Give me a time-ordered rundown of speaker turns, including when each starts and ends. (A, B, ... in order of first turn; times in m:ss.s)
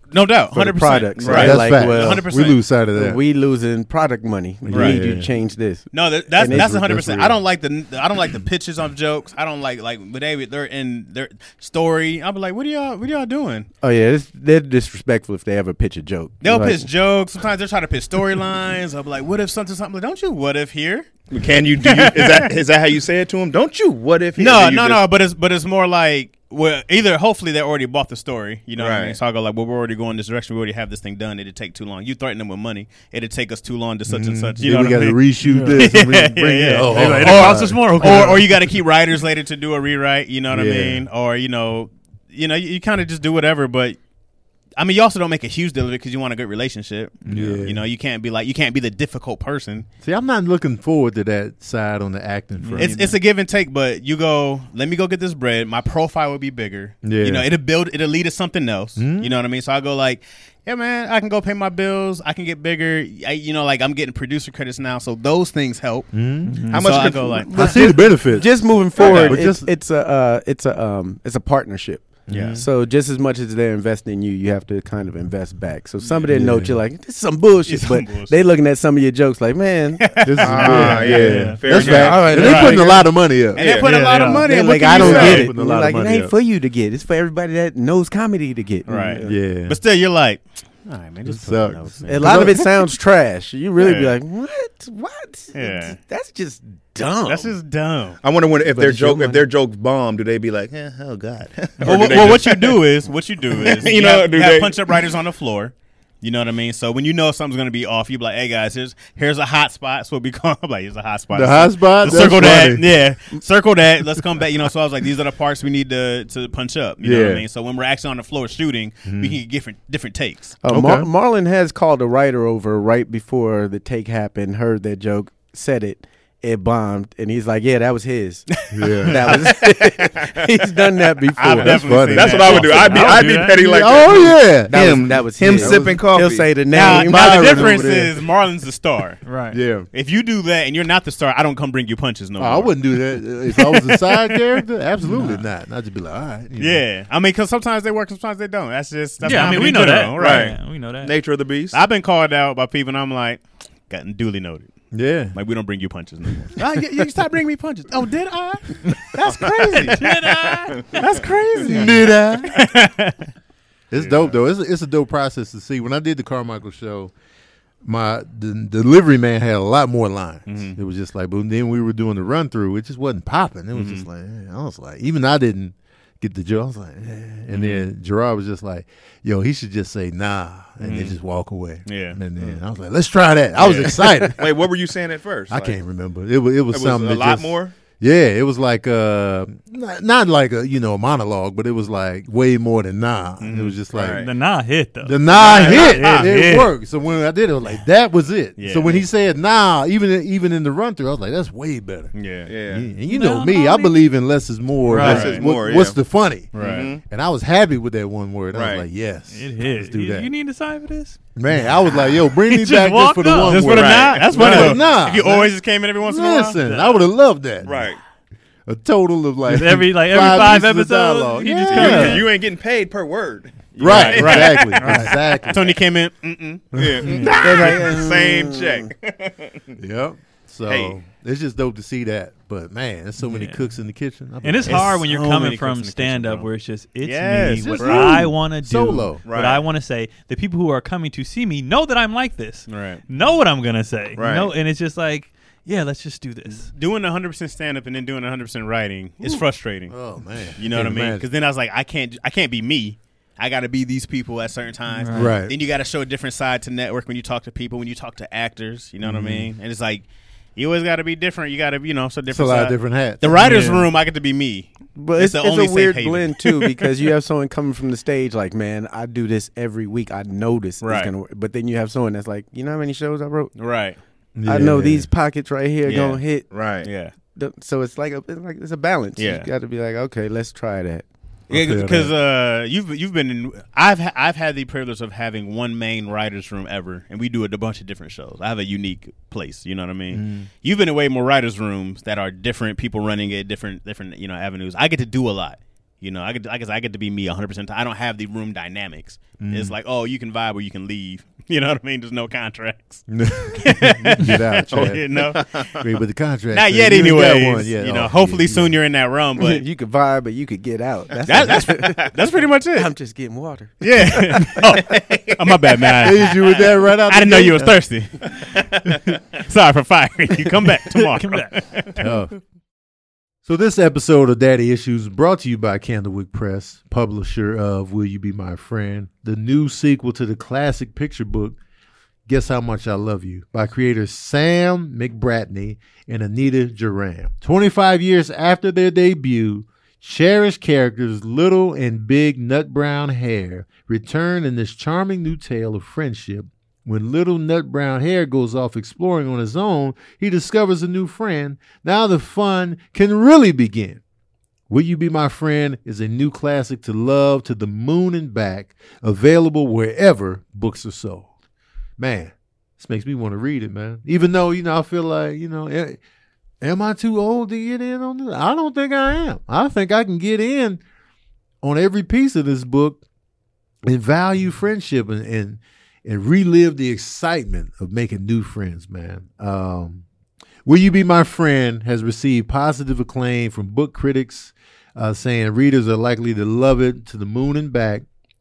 0:00.1-0:02.6 A
0:00.5-0:02.3 B
0:01.2-0:01.6 C
0:01.3-0:03.2 D
0:02.9-0:07.0 B
0:04.6-0:05.3 D
0:04.7-0:05.1 A
0:05.9-0:13.7 A
0:06.4-0:07.4 D
0:13.8-0:16.9 B
0:16.4-0:21.2 A
0:21.3-0:25.0 C
0:21.8-0:22.5 A
0:24.4-0:44.0 A
0:28.8-0:29.2 C
0:34.1-0:38.4 D
0:35.4-0:35.9 E
0:36.8-0:38.5 E
0:40.5-0:41.1 D
0:44.8-0:49.9 A
0:47.3-0:47.8 D
0:50.0-0:53.0 D
0:52.6-0:53.2 E
0:52.8-1:07.9 A
0:57.0-0:57.5 D
0:59.0-0:59.3 D
1:06.1-1:06.6 D
1:06.4-1:06.9 E
1:06.7-1:07.8 C
1:07.3-1:21.0 B
1:07.6-1:09.7 D
1:09.0-1:09.4 A
1:12.3-1:12.7 D
1:12.3-1:12.6 A
1:16.0-1:16.3 A
1:16.3-1:16.8 D
1:17.6-1:18.4 A
1:20.0-1:22.8 A
1:20.2-1:23.6 D
1:20.4-1:22.8 C
1:20.6-1:21.7 E
1:21.8-1:23.1 B
1:23.6-1:24.0 C
1:23.6-1:25.5 A
1:23.8-1:24.4 E
1:24.2-1:29.4 B
1:24.7-1:26.3 D
1:28.9-1:32.6 A
1:29.2-1:29.8 D
1:31.2-1:32.6 D
1:32.1-1:37.6 B
1:33.8-1:34.2 A
1:35.5-1:36.0 A
1:37.2-1:38.2 A
1:38.2-1:42.8 C
1:38.6-1:39.4 B
1:41.8-2:00.6 A
1:43.5-1:45.1 C
1:51.3-1:52.9 D
1:57.0-1:57.4 D
1:59.1-1:59.4 D
2:00.6-2:12.0 B
2:00.7-2:01.1 D
2:08.7-2:09.2 D
2:08.7-2:10.1 A
2:11.4-2:13.3 A
2:11.6-2:16.0 D
2:12.0-2:16.6 C
2:12.6-2:13.6 E
2:14.7-2:17.9 B
2:16.7-2:19.3 A
2:16.7-2:18.2 D
2:19.2-2:19.6 E
2:19.5-2:19.9 D
2:19.9-2:22.8 A
2:22.4-2:26.8 D
2:23.5-2:24.4 A
2:25.0-2:25.4 E
2:26.6-2:30.6 A
2:29.2-2:31.1 E
2:30.2-2:31.8 C
2:31.7-2:40.2 A
2:34.9-2:35.4 D
2:39.2-2:41.0 C
2:39.9-2:41.0 E
2:40.8-2:43.3 A
2:41.7-2:42.7 D
2:43.9-2:47.1 D
2:44.0-2:44.4 A
2:47.8-3:04.5 D
2:50.5-2:50.8 A
2:53.7-2:54.1 A
2:57.5-2:57.9 A
3:00.8-3:01.2 A
3:01.9-3:02.2 A
3:03.6-3:05.8 C
3:05.5-3:14.3 D
3:06.7-3:07.8 C
3:13.4-3:13.8 A
3:13.9-3:14.3 C
3:14.1-3:16.7 E
3:15.0-3:22.2 D
3:15.4-3:16.3 A
3:15.4-3:16.2 C
3:18.6-3:19.1 A
3:22.1-3:22.5 A
3:22.5-3:22.9 C
3:22.7-3:30.3 D
3:23.1-3:24.0 E
3:24.8-3:25.4 E
3:24.9-3:26.0 C
3:25.0-3:25.5 A
3:26.5-3:26.9 A
3:26.6-3:27.0 C
3:28.5-3:28.9 C
3:29.3-3:33.8 E
3:31.4-3:37.9 D
3:33.5-3:36.7 A
3:33.7-3:34.8 C
3:34.4-3:34.8 E
3:36.6-3:37.0 E
3:37.6-3:38.0 C
3:38.7-3:42.3 D
3:39.5-3:42.3 E
3:41.5-3:44.9 C
3:43.8-3:45.7 D
3:43.8-3:46.8 A
3:44.8-3:45.1 E
3:46.7-3:49.8 C
3:46.7-3:47.1 D
3:47.0-3:47.4 E
3:47.4-3:48.9 B
3:49.8-3:55.0 D
3:50.7-3:51.0 C
3:53.2-3:53.7 E
3:54.4-4:06.7 E
3:54.7-3:56.5 A
3:57.0-3:58.1 A
3:57.6-3:59.2 D
3:57.8-3:58.1 C
3:59.2-3:59.6 C
4:02.7-4:03.0 A
4:04.2-4:04.5 C
4:06.7-4:10.0 A
4:09.9-4:11.2 D
4:10.6-4:26.9 A
4:14.9-4:15.4 E
4:15.1-4:15.5 D
4:19.0-4:19.5 D
4:22.3-4:23.8 D
4:23.4-4:23.9 E
4:25.0-4:33.6 B
4:30.8-4:31.1 A
4:33.6-4:34.0 A
4:34.4-4:35.1 D
4:34.4-4:36.6 B
4:35.8-4:37.1 A
4:36.5-4:36.9 C
4:37.3-4:41.0 B
4:39.2-4:39.5 A
4:41.5-4:42.1 D
4:41.5-5:05.4 A
4:50.1-4:50.5 D
4:59.4-4:59.8 D
5:03.1-5:05.2 D
5:04.7-5:05.8 C
5:05.7-5:08.8 D
5:06.5-5:09.6 A
5:09.4-5:12.2 B
5:11.3-5:12.9 A
5:12.7-5:14.8 B
5:13.8-5:21.9 A
5:15.0-5:15.3 C
5:16.0-5:17.8 D
5:21.1-5:21.6 E
5:22.0-5:22.4 D
5:23.4-5:31.6 D
5:32.3-5:54.0 D
5:54.7-6:01.3 D
6:02.0-6:06.0 D
6:06.6-6:10.8 D
6:11.6-6:13.0 D
6:13.8-6:20.0 D
6:20.6-6:28.0 D